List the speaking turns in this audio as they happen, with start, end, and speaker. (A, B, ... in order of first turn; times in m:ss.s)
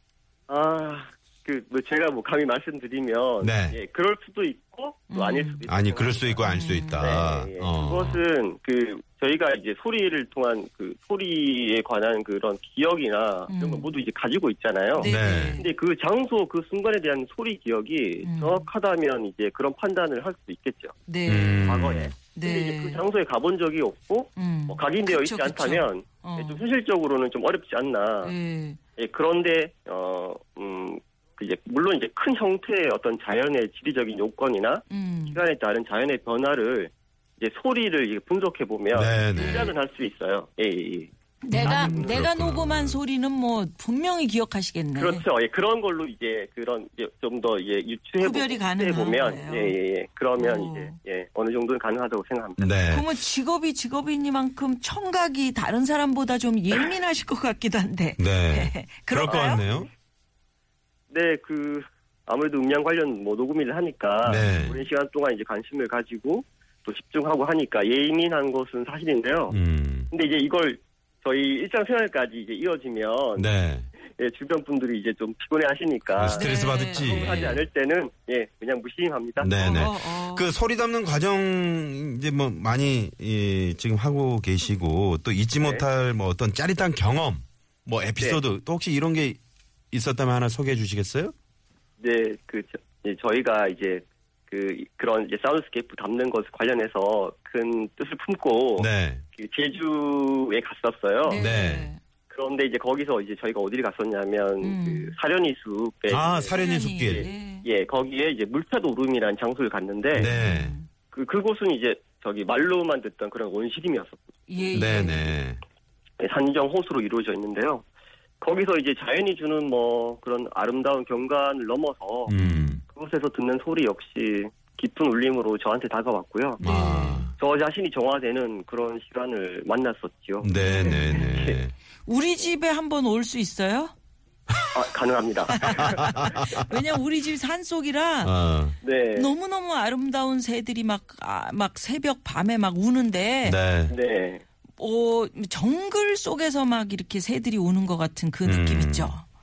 0:00.5-0:21.0 A
0:03.4-0:03.8 B
0:05.1-0:05.6 C
0:05.7-0:08.2 B
0:06.4-0:07.2 C
0:13.5-0:13.9 C
0:14.9-0:15.7 C
0:15.0-0:15.6 B
0:18.2-0:18.6 C
0:21.1-0:21.7 C
0:21.2-0:22.1 B
0:21.6-0:28.3 A
0:22.3-0:23.0 C
0:24.4-0:26.6 C
0:28.2-0:28.8 C
0:29.0-0:42.2 A
0:34.9-0:35.4 C
0:38.9-0:39.7 B
0:39.3-0:39.7 C
0:41.4-0:45.2 C
0:41.6-0:43.0 B
0:45.0-0:52.8 A
0:48.2-0:49.8 C
0:50.4-0:50.9 C
0:52.6-0:53.1 B
0:52.9-0:59.6 C
0:58.2-0:59.9 B
0:59.2-0:59.9 A
1:01.1-1:09.6 A
1:04.2-1:04.8 B
1:04.4-1:04.7 C
1:09.5-1:10.1 B
1:10.1-1:19.9 A
1:13.4-1:13.9 B
1:16.2-1:17.6 B
1:16.3-1:17.6 C
1:19.4-1:29.4 B
1:19.6-1:20.4 C
1:25.6-1:25.8 A
1:29.9-1:31.3 B
1:32.0-1:41.4 A
1:38.8-1:39.2 B
1:41.2-1:42.0 C
1:41.3-1:41.9 B
1:42.3-1:50.3 A
1:44.6-1:45.1 C
1:46.1-1:47.3 B
1:46.5-1:47.6 C
1:50.1-1:50.8 B
1:50.2-1:50.9 C
1:51.1-1:54.2 A
1:54.5-1:55.3 C
1:54.7-1:55.6 B
1:56.2-1:57.8 A
1:58.4-2:06.6 A
2:02.3-2:02.8 B
2:02.3-2:02.8 C
2:06.6-2:07.3 C
2:06.6-2:07.3 B
2:07.4-2:11.6 A
2:10.4-2:11.7 B
2:10.5-2:11.3 C
2:12.0-2:13.9 C
2:14.7-2:16.4 A
2:15.5-2:18.3 C
2:15.7-2:16.3 B
2:18.2-2:18.8 B
2:18.8-2:19.3 A
2:19.1-2:23.6 C
2:23.4-2:23.9 B
2:23.9-2:24.4 A
2:24.8-2:29.2 C
2:28.4-2:29.1 B